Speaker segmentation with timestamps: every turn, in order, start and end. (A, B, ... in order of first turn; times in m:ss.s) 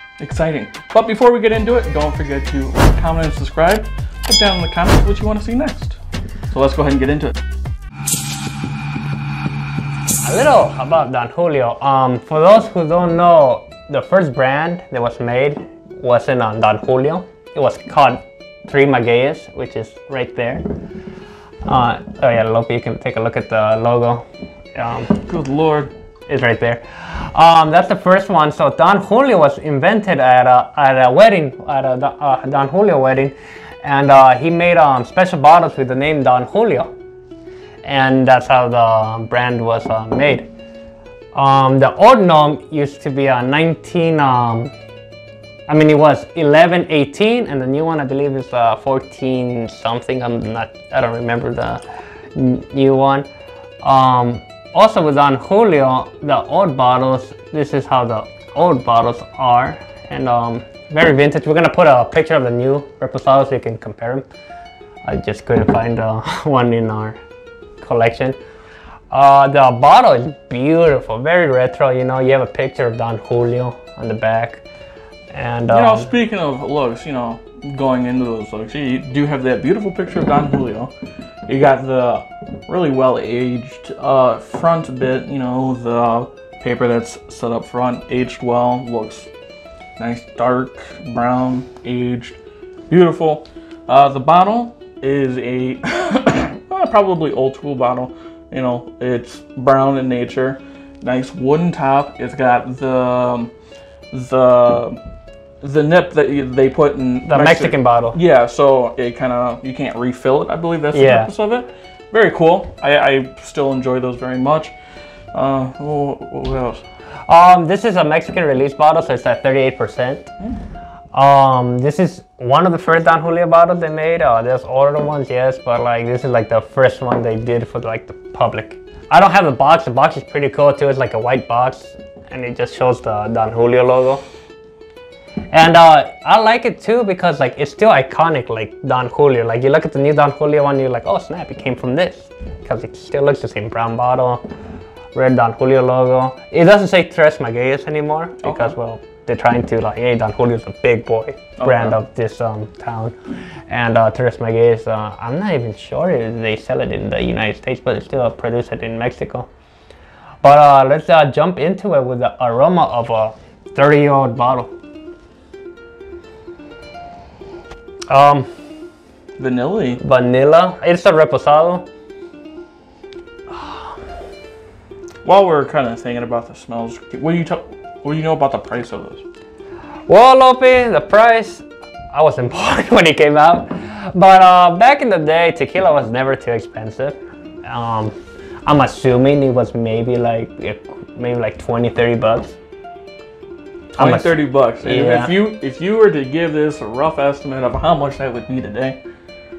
0:00.2-0:06.0 A
0:06.5-0:07.3 A
0:10.2-0:20.6 B
0:21.6-0:24.2 B
0:24.8-0:25.2 B
0:25.2-0:25.9 A
0:26.3-0:36.9 B
0:37.8-0:40.5 B
0:41.4-0:44.7 B
0:45.7-0:51.8 B
0:52.4-0:53.3 B
0:53.8-1:04.2 B
1:05.0-1:07.2 B
1:07.8-1:08.4 B
1:09.1-1:14.6 B
1:15.3-1:16.1 B
1:15.7-1:20.9 A
1:21.5-1:29.3 A
1:30.0-1:32.4 A
1:32.9-1:43.5 A
1:44.1-1:45.0 A
1:45.6-1:54.7 A
1:47.3-1:48.2 B
1:50.9-1:51.3 B
1:55.3-1:56.8 A
1:57.3-2:00.3 B
2:01.1-2:14.2 B
2:15.5-2:24.4 B
2:25.1-2:33.2 B
2:28.4-2:28.8 A
2:31.6-2:32.0 A
2:33.7-2:39.5 B
2:40.4-2:44.7 B
2:48.1-2:48.5 B
2:49.4-2:50.0 A
2:50.0-2:51.9 B
2:55.2-2:59.2 A
3:00.1-3:08.1 B
3:08.7-3:12.6 B
3:13.9-3:15.4 B
3:14.0-3:19.0 A